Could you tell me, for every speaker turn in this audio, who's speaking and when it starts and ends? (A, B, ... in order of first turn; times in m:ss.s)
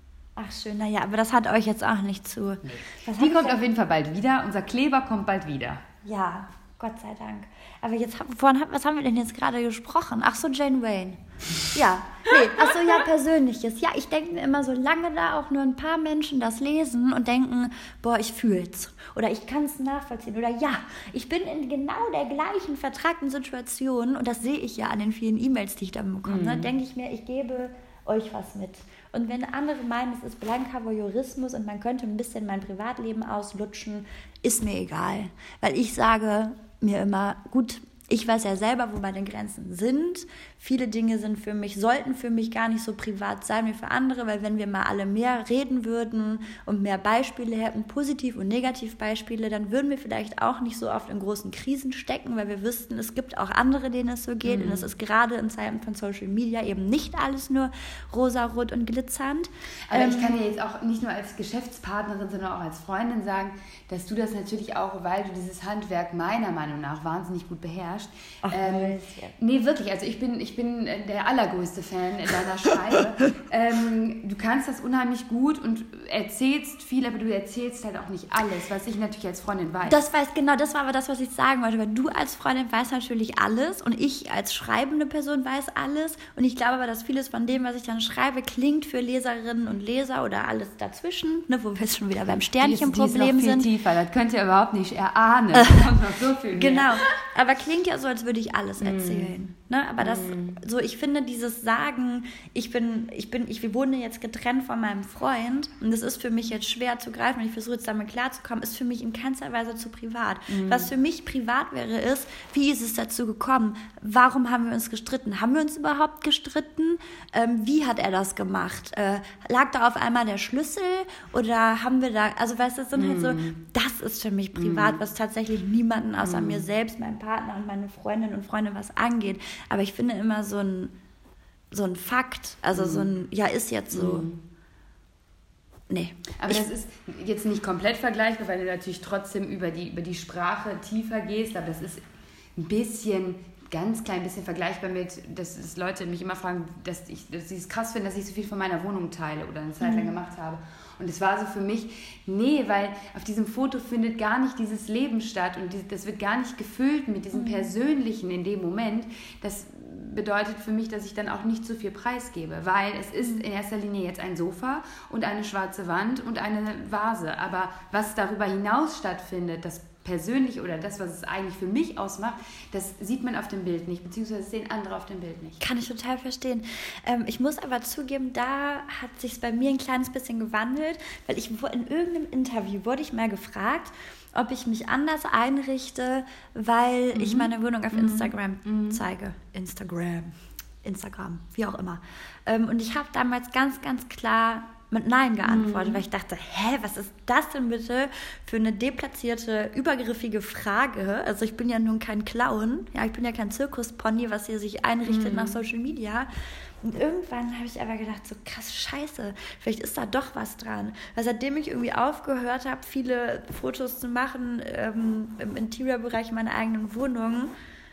0:00.4-0:03.6 A
0:02.6-0:05.8 B
0:06.0-1:00.4 A
0:26.2-0:26.7 B
0:54.4-0:54.9 B
0:59.9-1:20.0 B
1:08.4-1:09.3 A
1:19.8-1:33.7 A
1:32.6-1:37.0 B
1:35.5-1:35.9 A
1:36.5-2:10.9 A
1:38.8-1:39.3 B
1:40.0-1:40.6 B
1:50.5-1:50.9 B
2:02.9-2:03.6 B
2:04.5-2:05.0 B
2:06.2-2:06.6 B
2:11.7-2:14.3 A
2:12.7-2:13.1 B
2:13.9-2:14.4 B
2:15.9-2:16.6 A
2:16.4-2:22.0 B
2:22.6-2:55.6 B
2:29.8-2:30.1 A
2:37.3-2:37.7 A
2:55.6-3:26.3 A
3:07.1-3:09.0 B
3:15.4-3:16.0 B
3:25.0-3:25.6 B
3:26.8-3:37.5 A